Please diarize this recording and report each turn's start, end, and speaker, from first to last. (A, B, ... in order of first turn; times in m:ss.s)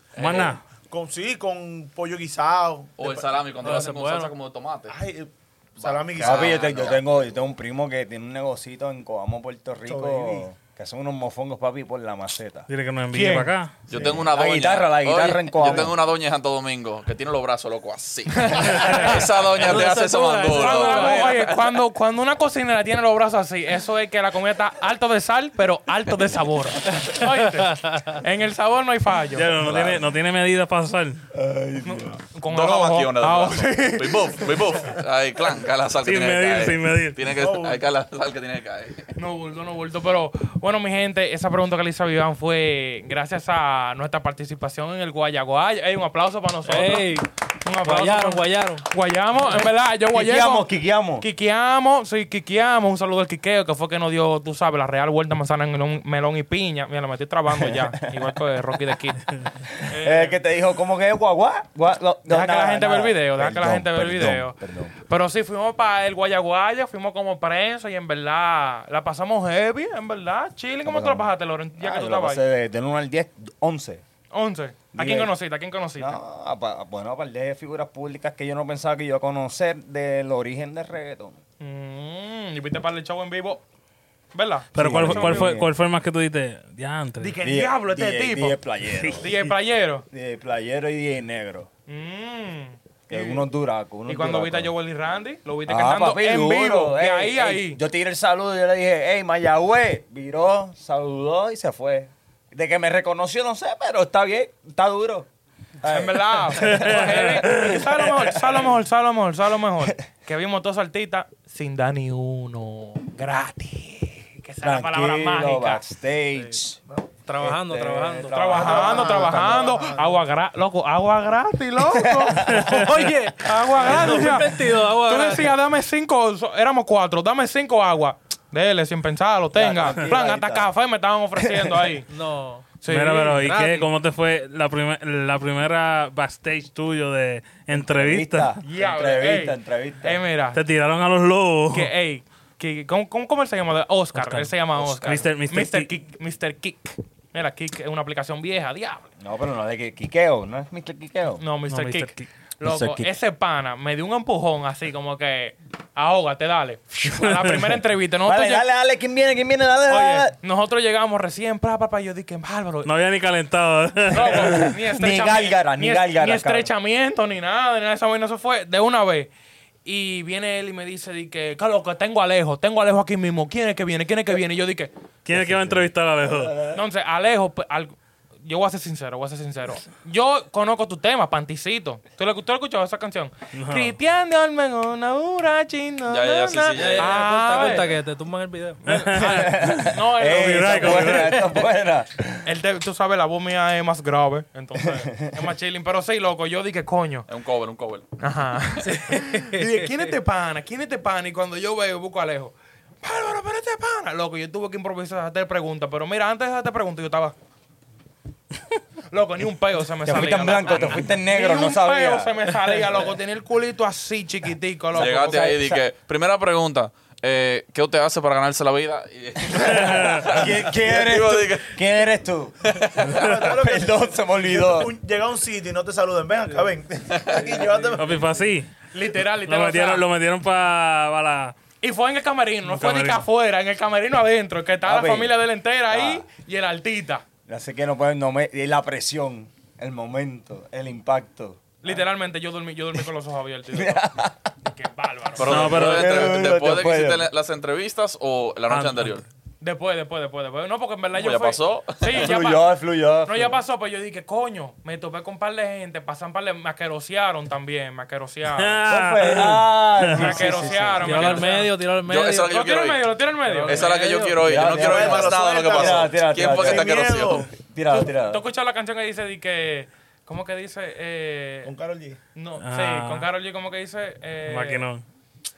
0:00.2-0:00.5 A
0:00.2-0:00.6 B
0:00.9-0:03.4 C
0:03.0-0:05.0 A
0:03.6-0:04.3 D
0:04.9-0:07.0 C
0:05.8-0:07.0 A
0:06.2-0:12.7 E
0:09.8-0:10.5 C
0:12.7-0:13.8 B
0:13.1-0:13.5 F
0:13.9-0:21.7 A
0:13.9-0:16.0 E
0:15.7-0:15.9 C
0:18.5-0:19.3 B
0:18.7-0:19.0 F
0:19.5-0:21.5 D
0:20.4-0:29.5 F
0:29.3-0:31.2 B
0:29.6-0:30.0 A
0:31.3-0:32.2 C
0:31.8-0:34.6 F
0:32.5-0:39.1 A
0:36.0-0:37.2 B
0:37.3-0:37.8 C
0:39.2-0:59.3 F
0:46.6-0:47.3 D
0:47.8-0:48.8 D
0:50.1-0:51.3 E
0:57.5-0:58.3 E
0:59.7-1:04.9 E
0:59.8-1:00.4 F
1:02.3-1:12.4 F
1:10.8-1:14.0 E
1:14.3-1:16.2 F
1:14.9-1:15.3 E
1:16.0-1:21.4 E
1:21.6-1:23.6 F
1:24.3-1:25.5 F
1:24.8-1:25.7 E
1:24.8-1:27.4 B
1:27.2-1:28.6 F
1:27.4-1:29.4 E
1:29.0-1:29.5 B
1:29.2-1:30.0 F
1:30.1-1:31.7 E
1:31.9-1:33.5 F
1:33.1-1:34.7 E
1:34.1-1:37.8 F
1:35.7-1:45.3 E
1:45.8-1:48.7 E
1:45.9-1:55.8 F
1:46.6-1:47.9 B
1:54.6-1:56.8 E
1:57.3-1:58.6 D
1:57.4-1:59.8 E
1:58.3-2:12.1 F
1:58.5-2:00.2 C
2:01.9-2:02.9 E
2:02.7-2:05.6 D
2:09.6-2:10.7 E
2:11.4-2:12.0 E
2:12.1-2:13.9 D
2:12.8-2:13.5 F
2:12.8-2:18.6 B
2:17.7-2:20.2 E
2:18.6-2:20.6 F
2:20.5-2:21.9 B
2:21.7-2:29.1 F
2:24.2-2:25.9 B
2:29.2-2:31.4 E
2:31.4-2:38.7 F
2:31.7-2:32.3 B
2:32.6-2:33.1 E
2:37.1-2:37.8 B
2:38.2-2:40.4 E
2:39.9-2:42.9 F
2:42.8-2:44.7 B
2:44.1-2:49.3 F
2:44.5-2:46.7 E
2:49.8-2:54.9 F
2:55.2-2:56.6 B
2:55.3-2:56.8 E
2:56.7-3:07.9 F
3:03.6-3:04.0 B
3:06.1-3:07.8 A
3:06.7-3:08.9 D
3:08.8-3:11.5 B
3:08.9-3:12.5 E
3:09.2-3:11.2 F
3:12.4-3:17.3 F
3:14.8-3:15.4 E
3:17.3-3:18.1 A
3:18.2-3:27.4 F
3:18.8-3:20.1 D
3:29.1-3:35.3 F
3:30.0-3:32.9 E
3:34.9-3:35.9 E
3:34.9-3:41.8 A
3:39.5-3:44.9 E
3:39.6-3:40.3 B
3:43.0-3:48.4 C
3:43.0-3:43.4 B
3:47.1-3:47.7 A
3:47.5-3:48.0 D
3:48.0-3:48.7 B
3:48.9-3:50.0 F
3:49.4-3:51.6 B
3:51.8-3:57.2 F
3:52.7-3:53.3 B
3:54.8-3:56.2 E
3:57.5-4:02.0 E
4:01.8-4:04.0 F
4:03.7-4:04.4 E
4:04.6-4:05.8 F
4:05.4-4:09.2 A
4:05.5-4:06.1 B
4:05.6-4:07.3 E
4:08.7-4:09.2 B
4:09.6-4:12.7 F
4:11.2-4:12.3 A
4:12.1-4:13.6 E
4:13.2-4:18.8 F
4:18.5-4:20.5 B
4:18.9-4:21.5 E
4:20.1-4:21.8 F
4:21.0-4:22.6 D
4:22.0-4:23.1 A
4:22.5-4:24.0 F
4:23.4-4:24.5 D
4:23.7-4:27.4 A
4:24.4-4:28.4 E
4:24.6-4:27.5 C
4:27.9-4:31.7 F
4:31.6-4:32.2 C
4:32.4-4:34.9 F
4:32.6-4:33.3 B
4:34.5-4:35.0 B